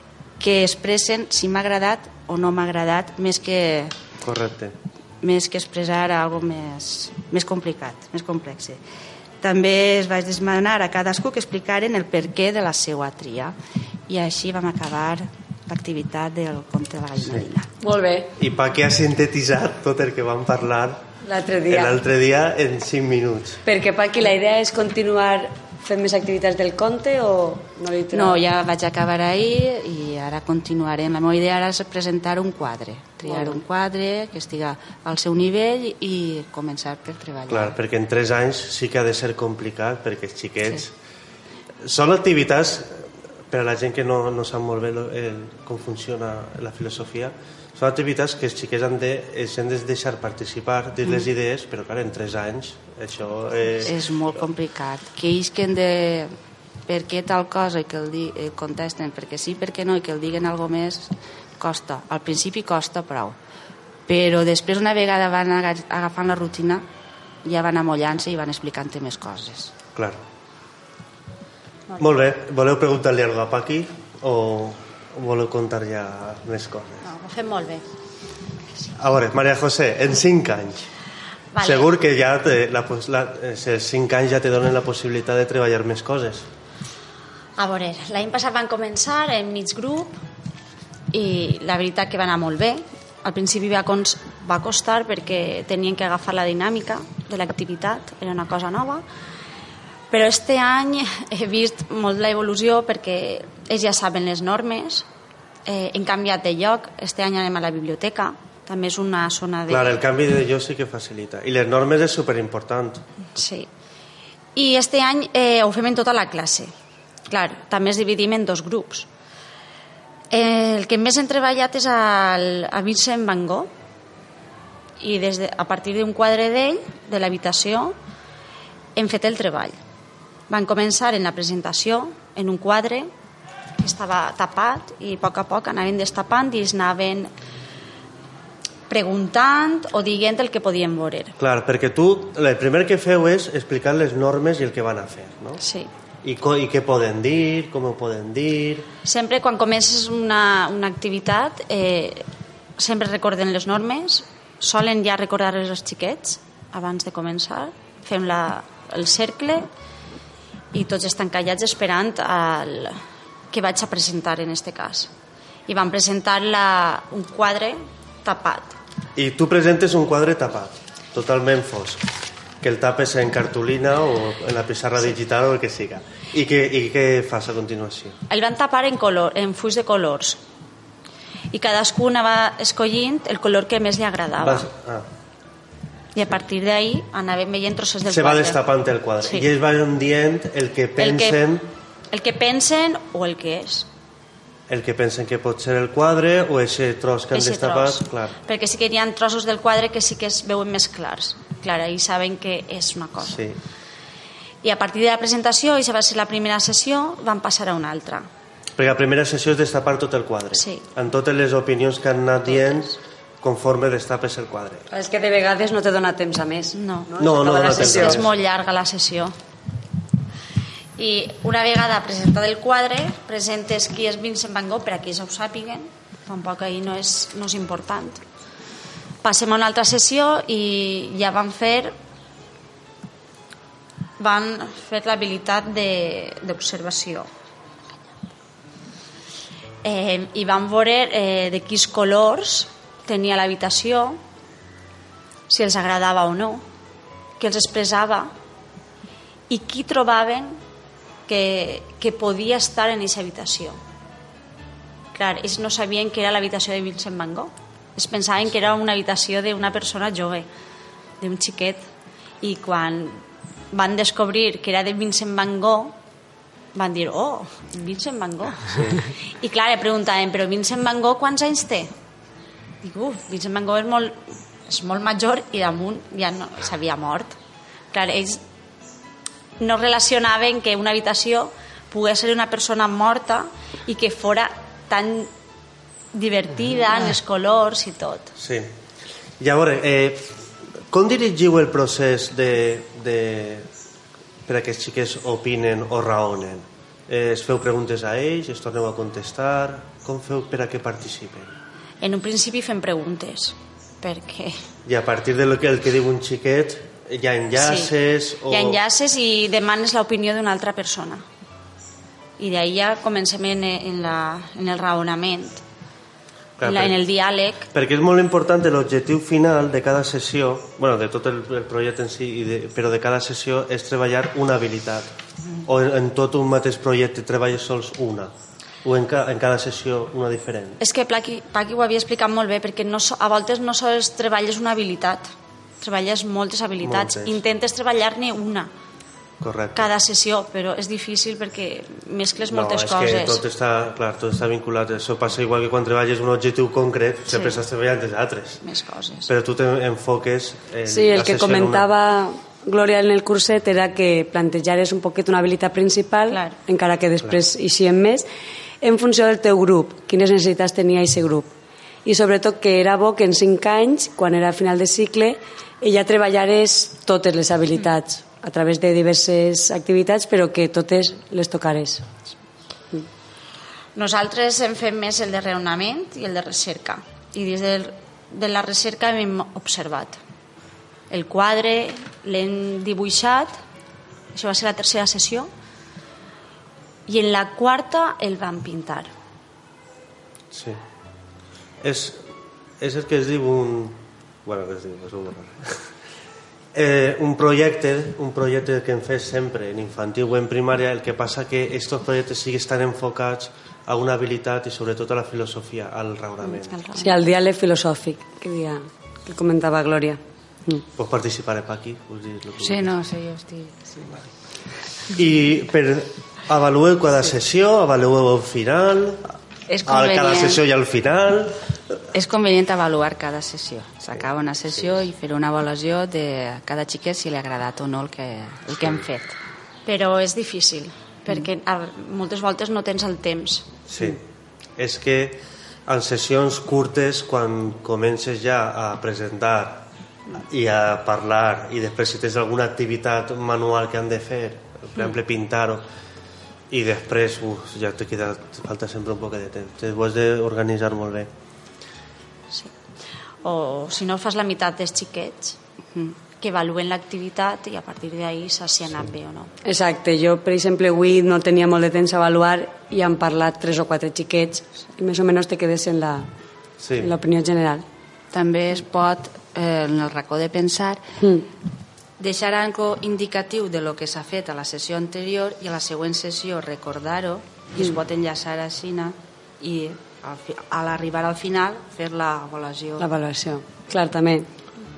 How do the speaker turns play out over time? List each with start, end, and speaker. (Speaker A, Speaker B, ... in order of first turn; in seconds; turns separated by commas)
Speaker A: 0.4-3.9, Speaker B: 4.2-4.8, Speaker A: 5.2-8.8, Speaker A: 9.4-13.6, Speaker A: 14.1-17.7, Speaker C: 17.8-18.3, Speaker B: 18.4-21.0, Speaker C: 21.2-22.0, Speaker B: 21.7-23.6, Speaker C: 23.6-28.4, Speaker A: 28.1-37.8, Speaker C: 33.3-33.6, Speaker B: 37.5-40.9, Speaker B: 41.8-53.9, Speaker A: 53.9-56.3, Speaker A: 56.9-63.4, Speaker A: 64.1-66.8, Speaker A: 67.5-69.7, Speaker B: 70.0-70.2, Speaker D: 71.9-72.2, Speaker B: 72.0-77.0, Speaker D: 77.0-77.9, Speaker B: 79.0-80.9, Speaker D: 81.5-81.9, Speaker B: 81.6-86.5, Speaker D: 87.6-90.2, Speaker D: 91.1-99.0, Speaker D: 100.1-105.1, Speaker D: 105.7-110.0, Speaker B: 109.7-113.0, Speaker D: 113.3-113.7, Speaker D: 114.5-116.7, Speaker D: 117.3-119.1, Speaker D: 120.3-123.7, Speaker D: 125.0-128.0, Speaker D: 128.9-129.8, Speaker D: 130.5-133.1, Speaker D: 133.8-137.3, Speaker D: 138.9-141.3, Speaker B: 141.4-145.6, Speaker D: 145.6-145.9, Speaker B: 146.2-148.9, Speaker D: 149.1-152.3, Speaker D: 152.8-159.7, Speaker D: 160.7-165.1, Speaker D: 165.7-168.8, Speaker B: 169.2-172.0, Speaker B: 172.6-178.2, Speaker D: 178.3-180.4, Speaker D: 181.5-184.7, Speaker B: 184.4-185.1, Speaker D: 186.2-188.6, Speaker B: 188.1-191.7, Speaker D: 189.2-189.5, Speaker D: 191.0-191.4, Speaker D: 192.1-193.9, Speaker B: 194.7-198.4, Speaker D: 197.3-203.4, Speaker B: 203.2-203.6, Speaker D: 204.6-208.3, Speaker B: 208.8-214.9, Speaker D: 210.5-210.8, Speaker D: 212.5-212.9, Speaker C: 214.9-218.2, Speaker D: 216.7-219.3, Speaker B: 217.2-218.3, Speaker D: 221.0-228.2, Speaker D: 229.2-231.9, Speaker D: 234.2-237.3, Speaker D: 239.8-244.2, Speaker D: 245.5-246.7, Speaker D: 247.4-248.3, Speaker D: 249.5-250.6, Speaker D: 251.3-253.8, Speaker D: 255.1-260.5, Speaker D: 261.2-261.9, Speaker D: 262.4-263.2, Speaker D: 263.7-266.0, Speaker D: 266.7-271.9, Speaker B: 268.6-269.1, Speaker D: 272.8-277.4, Speaker D: 277.9-278.4, Speaker D: 279.6-285.3, Speaker D: 286.1-288.3, Speaker B: 288.4-288.7, Speaker B: 289.4-293.7, Speaker B: 294.5-301.5, Speaker D: 302.0-304.6, Speaker B: 304.9-308.8, Speaker D: 307.6-307.9, Speaker D: 308.5-311.2, Speaker D: 312.4-315.6, Speaker B: 316.6-317.0, Speaker D: 316.6-317.7, Speaker B: 317.7-325.1, Speaker B: 325.6-328.3, Speaker B: 328.8-330.8, Speaker D: 330.8-335.3, Speaker D: 335.8-338.7, Speaker B: 336.8-337.4, Speaker B: 339.4-339.9, Speaker D: 339.8-343.4, Speaker B: 342.5-348.6, Speaker D: 347.3-347.6, Speaker D: 348.6-349.3, Speaker B: 349.3-351.9, Speaker C: 350.9-358.3, Speaker D: 356.3-356.6, Speaker C: 358.8-361.5, Speaker C: 362.1-372.1, Speaker D: 373.9-380.2, Speaker D: 381.1-383.5, Speaker D: 384.3-385.5, Speaker D: 387.1-389.1, Speaker B: 390.5-390.8, Speaker B: 391.8-395.9, Speaker B: 396.7-406.8, Speaker D: 406.4-407.1, Speaker C: 406.9-410.8, Speaker B: 411.0-413.0, Speaker A: 412.6-414.2, Speaker B: 415.1-419.3, Speaker A: 419.7-420.6, Speaker B: 419.9-421.6, Speaker A: 422.1-429.4, Speaker D: 429.9-433.7, Speaker B: 433.9-434.2, Speaker B: 434.8-445.8, Speaker B: 446.7-451.3, Speaker D: 453.4-455.6, Speaker D: 456.4-459.5, Speaker C: 459.6-466.3, Speaker B: 466.8-467.1, Speaker C: 467.0-467.9, Speaker A: 468.3-471.0, Speaker A: 472.2-483.1, Speaker C: 483.0-484.5